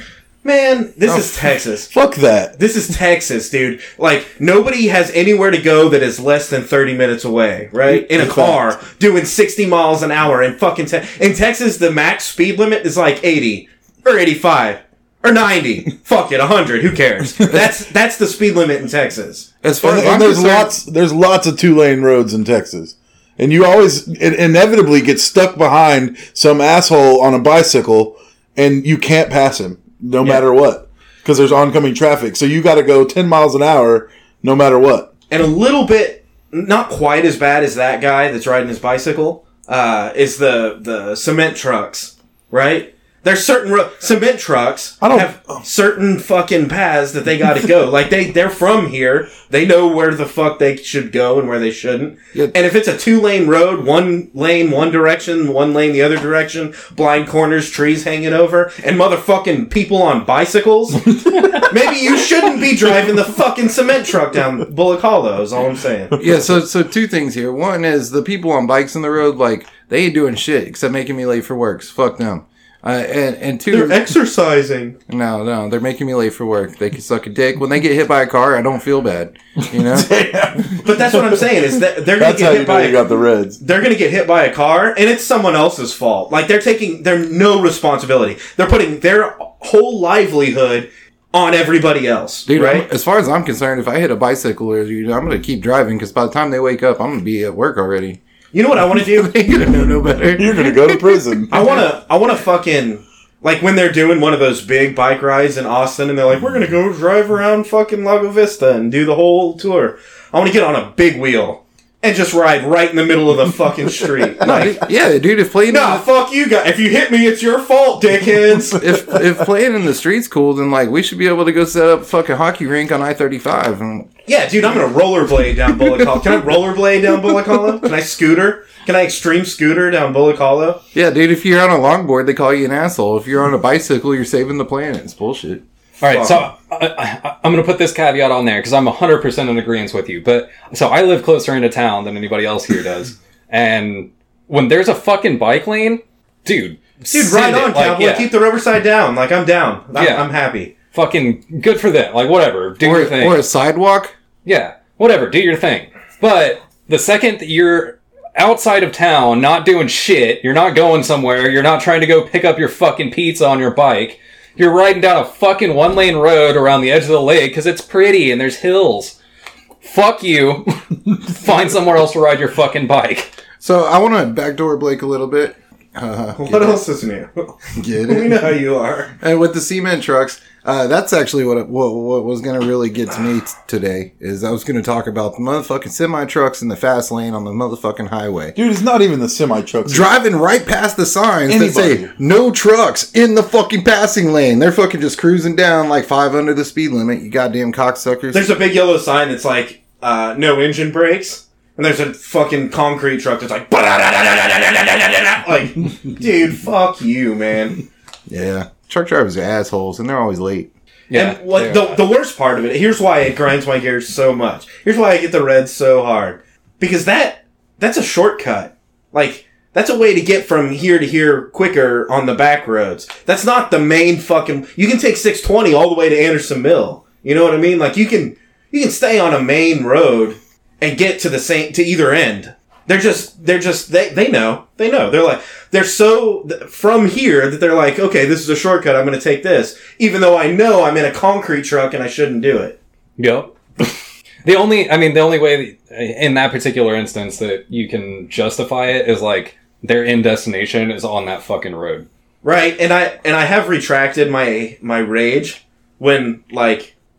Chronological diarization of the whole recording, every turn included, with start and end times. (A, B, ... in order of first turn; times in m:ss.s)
0:00.4-0:01.9 A
0:01.0-0:01.6 B
0:01.9-0:02.5 C
0:02.6-0:19.5 A
0:07.9-0:08.7 C
0:19.6-0:20.7 B
0:19.8-0:35.1 C
0:30.2-0:30.4 A
0:35.3-1:06.2 A
0:45.0-0:45.6 C
1:01.1-1:01.6 C
1:06.2-1:14.0 B
1:13.7-1:15.0 A
1:15.1-1:20.0 B
1:19.7-1:23.6 C
1:20.8-1:23.0 A
1:23.6-1:32.9 A
1:32.4-1:38.2 B
1:38.5-1:39.4 A
1:38.8-1:41.4 B
1:40.4-1:41.6 C
1:41.5-1:54.8 A
1:54.4-1:56.0 B
1:55.7-1:58.8 A
1:58.8-2:04.1 B
1:58.8-1:59.4 C
2:04.2-2:10.8 A
2:06.0-2:06.4 B
2:07.2-2:07.7 B
2:10.9-2:15.6 B
2:16.0-2:28.3 D
2:16.0-2:16.5 A
2:27.1-2:30.7 A
2:29.9-2:30.3 D
2:30.9-2:33.4 D
2:32.8-2:34.1 B
2:34.4-2:49.2 D
2:49.8-2:53.3 D
2:53.6-2:56.8 B
2:56.3-2:59.1 A
2:57.7-2:58.5 B
2:59.2-3:08.5 B
3:08.5-3:10.1 C
3:09.8-3:18.5 B
3:11.5-3:12.1 C
3:18.3-3:27.8 A
3:28.3-3:30.7 B
3:31.1-3:32.0 D
3:31.1-4:02.8 A
4:03.2-4:12.0 D
4:12.4-4:16.9 A